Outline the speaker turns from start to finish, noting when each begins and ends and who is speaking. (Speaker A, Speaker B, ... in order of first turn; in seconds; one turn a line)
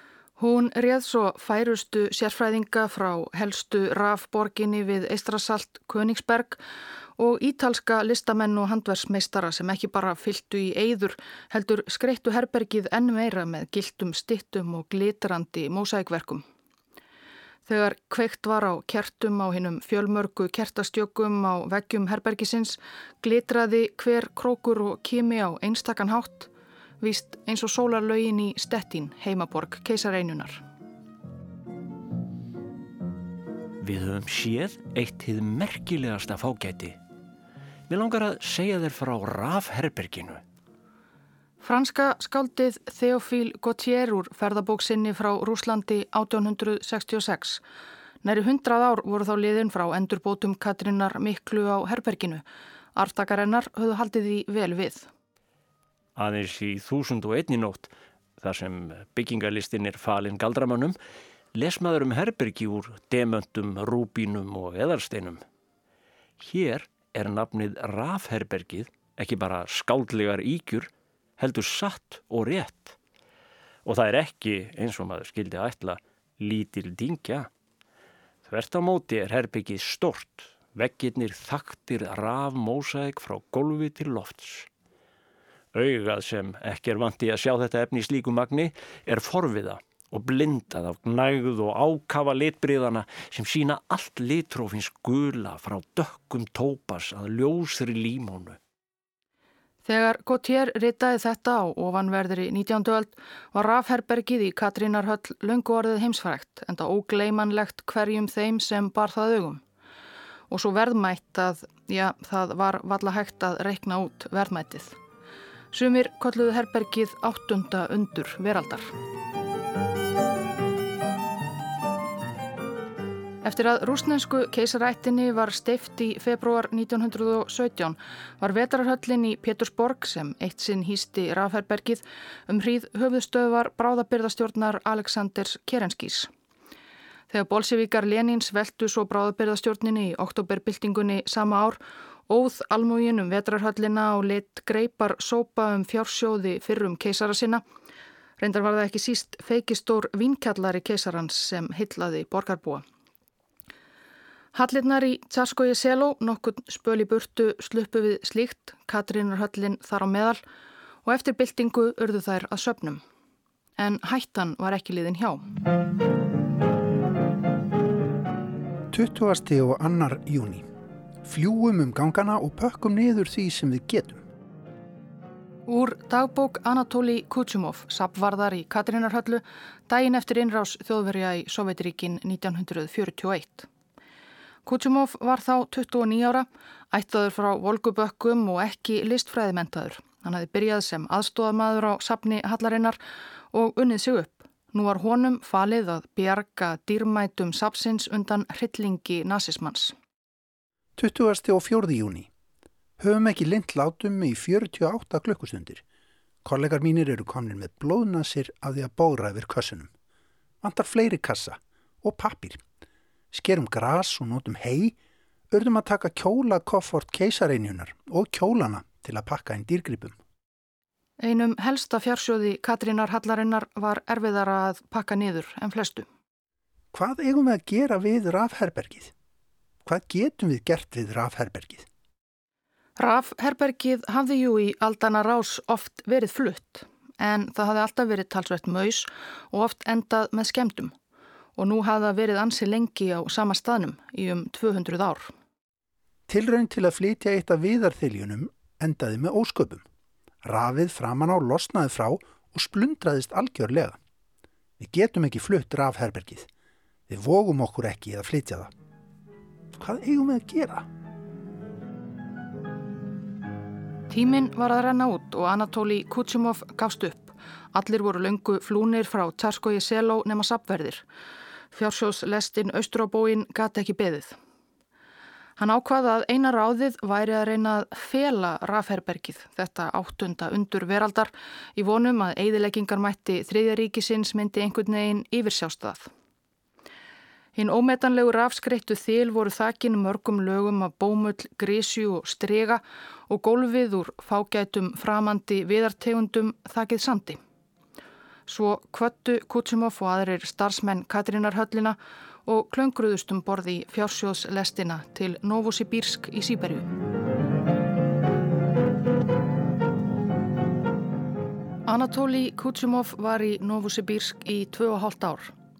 Speaker A: 0.4-6.6
Speaker A: 7.2-16.4
Speaker A: 17.6-26.5
Speaker A: 27.0-30.6
Speaker B: 33.8-37.0
Speaker B: 37.9-40.4
Speaker A: 41.6-47.6
Speaker A: 48.2-52.4
Speaker A: 53.0-55.1
Speaker B: 56.1-61.0
Speaker B: 61.5-65.4
Speaker B: 66.4-73.0
Speaker B: 73.8-77.5
Speaker B: 78.5-84.7
Speaker B: 85.7-98.6
Speaker A: 99.8-109.6
Speaker A: 110.5-115.0
Speaker A: 115.7-118.9
Speaker A: 123.4-136.3
Speaker A: 137.3-147.6
Speaker A: 148.4-152.8
Speaker A: 154.5-160.4
Speaker A: 161.0-163.0
Speaker A: 163.8-165.4
Speaker C: 168.9-170.6
Speaker C: 171.2-174.2
Speaker A: 175.7-183.7
Speaker A: 184.7-193.0
Speaker A: 193.5-199.9
Speaker C: 201.0-202.3
Speaker C: 203.0-205.8
Speaker C: 206.4-209.9
Speaker C: 210.6-212.6
Speaker C: 213.3-214.9
Speaker C: 215.5-220.2
Speaker A: 221.2-226.1
Speaker C: 226.9-229.1
Speaker C: 229.8-231.8
Speaker A: 233.0-240.9
Speaker A: 241.6-245.3
Speaker C: 246.3-249.8
Speaker C: 250.4-254.0
Speaker C: 254.8-256.5
Speaker C: 257.1-258.7
Speaker C: 259.7-260.9
Speaker A: 264.1-271.0
Speaker A: 271.7-274.4
Speaker A: 275.6-286.1
Speaker A: 287.6-297.4
Speaker A: 298.5-306.9
Speaker A: 311.9-315.5